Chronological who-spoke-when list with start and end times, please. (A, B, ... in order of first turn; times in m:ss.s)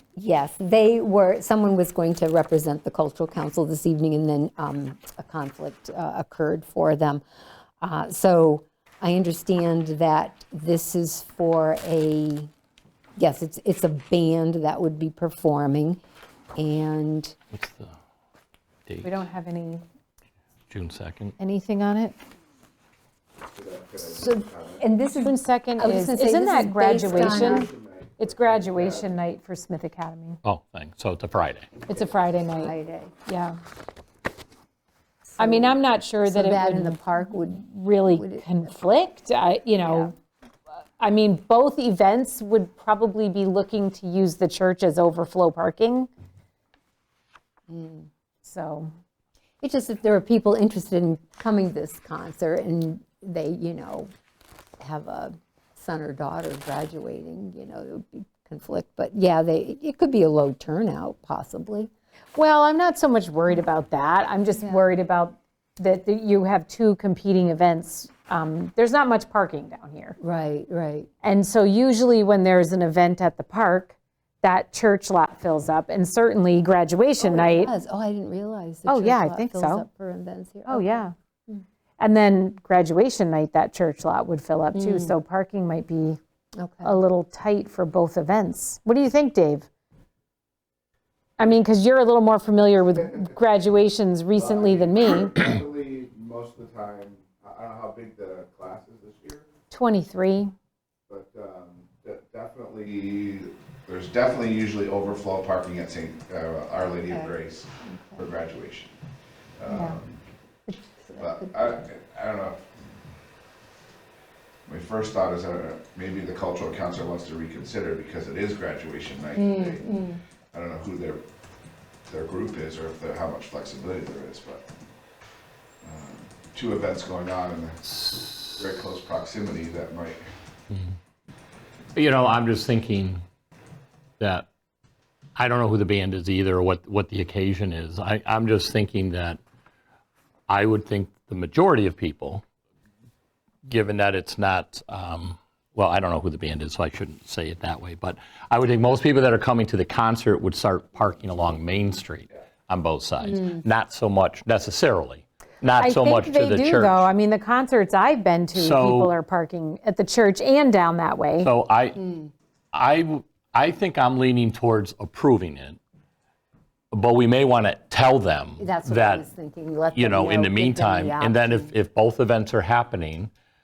0:00.2-0:07.2 A
0:07.8-0:12.5 A
0:13.2-0:16.0 A
0:16.6-0:17.4 A
0:17.5-0:18.0 B
0:18.9-0:19.1 B
0:19.0-0:19.8 C
0:20.7-0:21.4 B
0:21.4-0:22.2 C
0:23.5-0:24.8 D
0:24.0-0:27.7 A
0:25.1-0:30.4 C
0:26.9-0:29.1 D
0:30.4-0:31.7 B
0:31.9-0:32.7 C
0:32.5-0:33.1 A
0:33.3-0:33.6 C
0:35.4-0:38.4 A
0:35.4-0:40.1 C
0:39.8-0:40.1 A
0:41.0-0:46.1 C
0:47.7-0:48.1 A
0:48.4-0:48.9 C
0:49.6-0:54.1 A
0:54.8-1:01.9 A
1:02.4-1:10.2 C
1:04.6-1:04.9 A
1:10.2-1:11.1 A
1:11.2-1:17.7 C
1:17.2-1:21.6 A
1:18.9-1:19.8 C
1:20.7-1:21.1 C
1:22.0-1:26.2 C
1:24.7-1:25.2 A
1:26.6-1:27.0 A
1:26.8-1:29.7 C
1:31.4-1:35.5 C
1:32.9-1:33.3 D
1:34.4-1:39.5 D
1:39.7-1:40.5 C
1:41.1-1:49.0 D
1:47.1-1:48.3 A
1:49.6-1:50.2 D
1:49.7-1:50.0 C
1:50.7-1:51.8 A
1:51.2-1:52.6 D
1:54.7-1:59.9 D
1:59.4-2:00.2 A
2:00.5-2:01.2 D
2:02.1-2:04.7 D
2:05.8-2:10.2 D
2:12.0-2:13.2 B
2:14.2-2:14.5 B
2:15.4-2:19.4 B
2:20.5-2:22.4 B
2:23.6-2:37.1 B
2:35.8-2:41.5 C
2:38.6-2:39.1 B
2:41.4-2:42.0 B
2:42.0-2:42.3 A
2:42.7-2:45.8 B
2:46.9-2:49.2 B
2:48.6-2:51.7 A
2:49.9-2:53.3 B